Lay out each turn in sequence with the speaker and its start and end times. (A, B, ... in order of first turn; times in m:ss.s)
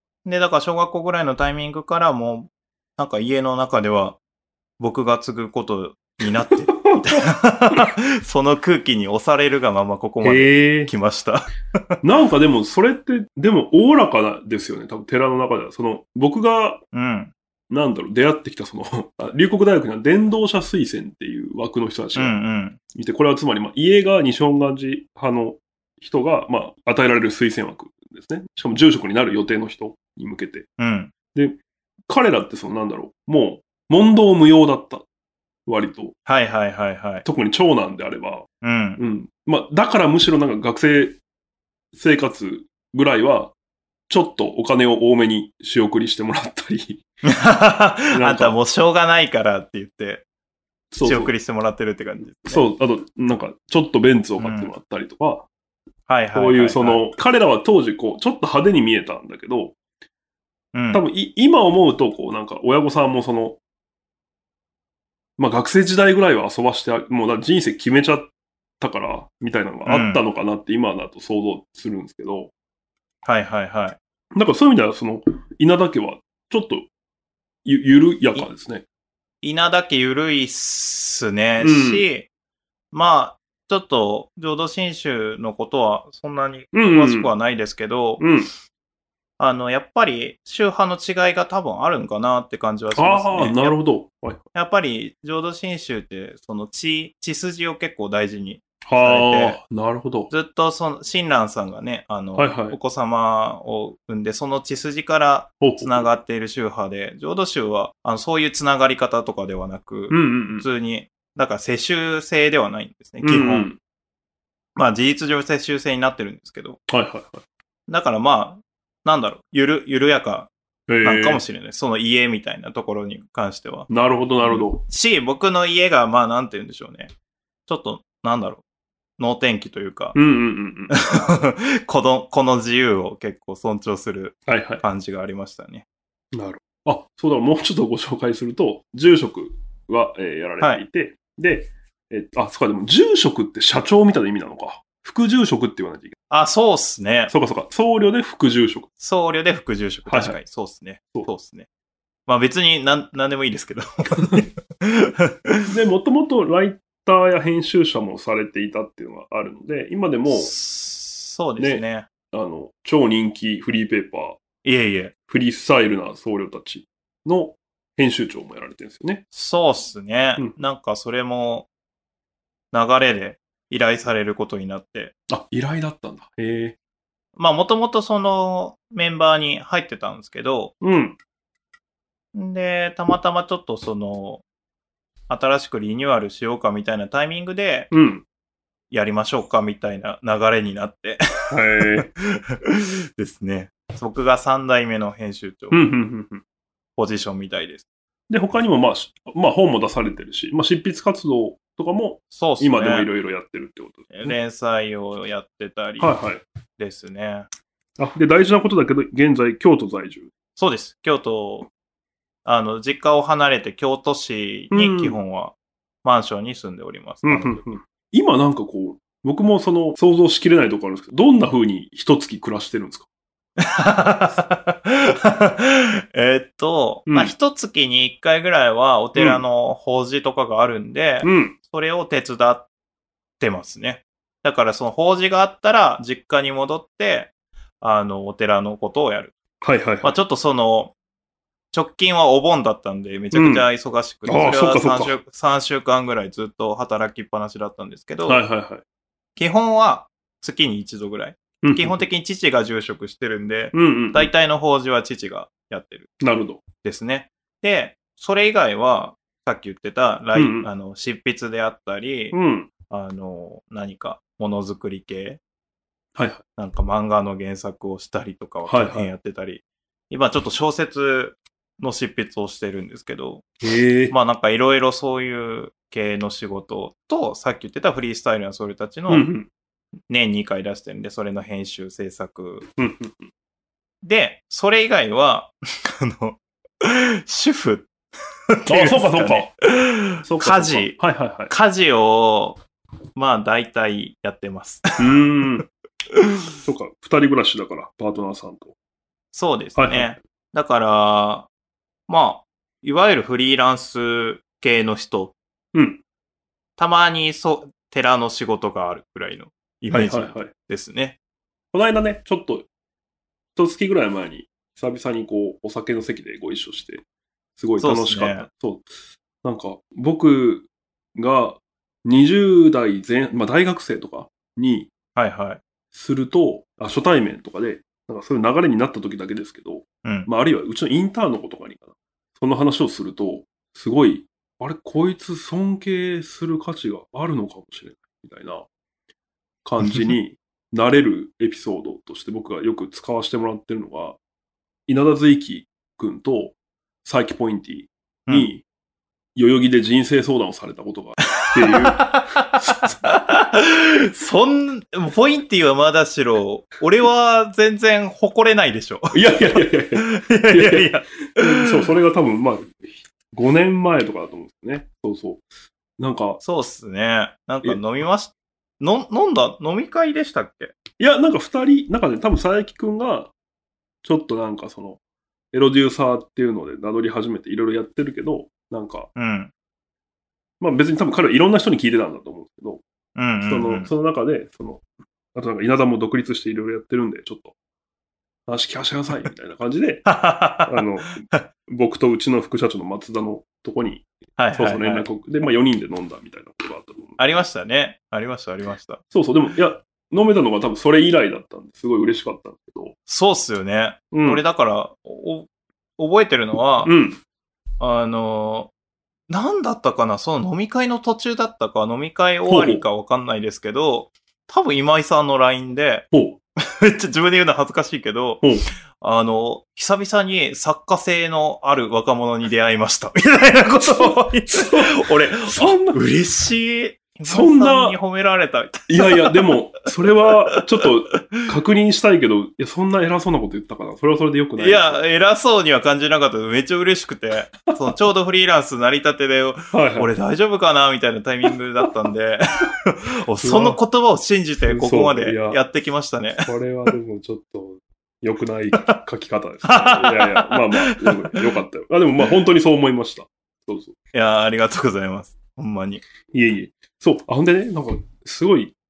0:00.2-0:04.2 A
0:04.8-0:12.0 A
0:06.9-0:07.2 B
0:10.2-0:10.9 B
0:12.0-0:16.8 B
0:16.9-0:17.3 A
0:17.7-0:22.4 B
0:22.1-0:22.8 A
0:22.9-0:30.7 B
0:30.8-0:31.1 A
0:31.3-0:35.0 B
0:35.6-0:36.2 B
0:36.2-0:37.2 A
0:37.2-0:38.4 B
0:38.6-0:39.0 A
0:39.0-0:41.2 B
0:41.9-0:43.5 B
0:44.1-0:47.0 B
0:47.2-0:50.2 A
0:48.1-0:48.6 B
0:50.9-0:51.3 B
0:51.0-0:52.6 A
0:52.4-0:55.5 B
0:54.4-0:54.7 A
0:56.1-0:57.0 A
0:56.3-0:59.8 B
1:00.7-1:01.0 A
1:00.9-1:03.6 B
1:05.4-1:12.5 B
1:09.8-1:10.2 A
1:13.2-1:14.0 A
1:14.3-1:16.9 B
1:17.6-1:18.8 B
1:19.4-1:22.3 A
1:21.6-1:22.0 B
1:22.9-1:28.3 A
1:26.7-1:27.3 B
1:28.2-1:28.5 B
1:29.4-1:33.8 A
1:32.9-1:34.4 B
1:34.5-1:39.6 A
1:38.9-1:40.3 B
1:40.3-1:53.7 A
1:42.4-1:42.8 B
1:45.6-1:46.1 B
1:50.1-1:50.7 B
1:53.2-1:53.8 B
1:54.8-1:56.8 A
1:56.9-1:57.4 B
1:57.9-2:00.5 A
2:00.9-2:01.4 B
2:01.0-2:03.9 A
2:03.9-2:04.8 B
2:04.4-2:07.1 A
2:07.7-2:08.6 A
2:09.2-2:10.2 A
2:10.1-2:10.9 B
2:10.9-2:15.8 A
2:14.5-2:14.8 B
2:16.3-2:26.2 B
2:26.3-2:27.3 A
2:27.3-2:28.9 B
2:29.0-2:31.7 A
2:30.1-2:30.4 B
2:32.3-2:35.7 A
2:35.7-2:40.5 B
2:40.3-2:42.1 A
2:41.6-2:44.4 B
2:44.6-2:45.1 A
2:45.3-2:49.2 B
2:49.3-2:51.7 A
2:52.7-2:55.1 A
2:55.3-2:56.8 B
2:57.4-3:00.7 A
3:00.8-3:01.2 B
3:02.3-3:04.4 A
3:05.3-3:07.9 A
3:07.9-3:08.2 B
3:08.9-3:11.2 A
3:11.5-3:12.1 B
3:11.8-3:15.9 A
3:15.7-3:16.4 B
3:17.0-3:17.8 A
3:18.3-3:24.4 B
3:22.3-3:23.1 A
3:24.1-3:26.2 A
3:26.0-3:26.4 B
3:26.8-3:27.5 A
3:28.0-3:30.3 B
3:30.6-3:31.7 A
3:32.4-3:37.7 A
3:34.7-3:35.2 B
3:37.2-3:43.1 B
3:43.6-3:52.7 A
3:47.1-3:47.3 B
3:49.2-3:49.4 B
3:51.2-3:51.6 B
3:53.4-3:59.4 A
3:59.6-4:00.2 B
4:00.0-4:00.9 A
4:01.7-4:08.4 A
4:03.3-4:03.7 B
4:04.2-4:05.2 B
4:08.2-4:08.8 B
4:09.4-4:16.1 A
4:11.6-4:12.0 B
4:13.7-4:14.3 B
4:16.2-4:16.6 B
4:16.8-4:22.4 A
4:20.3-4:20.7 B
4:22.3-4:22.7 B
4:22.9-4:25.4 A
4:26.2-4:26.4 B
4:26.6-4:33.5 A
4:28.6-4:29.1 B
4:33.6-4:34.2 B
4:34.1-4:39.3 A
4:39.1-4:39.5 B
4:40.1-4:42.7 A
4:42.8-4:43.3 B
4:44.0-4:47.9 A
4:48.5-4:52.6 A
4:48.7-4:49.5 B
4:50.2-4:51.5 B
4:53.1-4:54.8 A
4:55.0-4:55.6 B
4:56.6-4:58.7 B
4:59.3-5:01.5 A
4:59.8-5:00.1 B
5:02.1-5:05.4 A
5:05.7-5:06.0 B
5:06.8-5:11.2 A
5:09.9-5:10.5 B
5:11.7-5:12.7 B
5:13.6-5:17.0 B
5:17.6-5:18.9 B
5:17.8-5:18.5 A
5:19.4-5:24.9 B
5:25.2-5:25.6 A
5:25.9-5:38.7 B
5:30.0-5:30.3 A
5:39.6-5:44.2 B
5:39.8-5:40.1 A
5:44.9-5:48.6 B
5:49.4-5:53.0 B
5:51.4-6:01.8 A
5:59.1-6:05.4 B
6:06.0-6:06.4 B
6:06.4-6:10.7 A
6:11.0-6:13.3 B
6:14.0-6:15.0 B
6:15.5-6:19.1 B
6:19.1-6:19.5 A
6:20.6-6:22.8 B
6:23.2-6:23.9 A
6:23.4-6:24.8 B
6:25.3-6:27.5 B
6:28.5-6:30.1 B
6:30.0-6:31.4 A
6:30.6-6:37.2 B
6:34.4-6:35.1 A
6:37.2-6:39.0 A
6:39.1-6:42.9 B
6:43.1-6:46.9 A
6:44.1-6:44.4 B
6:46.8-6:47.2 B
6:47.8-6:48.7 A
6:49.3-6:56.1 A
6:52.5-6:52.8 B
6:56.1-6:56.4 B
6:56.6-7:09.5 A
7:03.8-7:06.0 B
7:07.3-7:08.0 B
7:08.9-7:15.0 B
7:10.5-7:11.5 A
7:14.6-7:26.5 A
7:19.7-7:20.1 B
7:23.4-7:23.8 B
7:24.7-7:25.6 B
7:26.4-7:33.9 B
7:29.6-7:31.4 A
7:34.1-7:36.0 A
7:36.3-7:38.7 B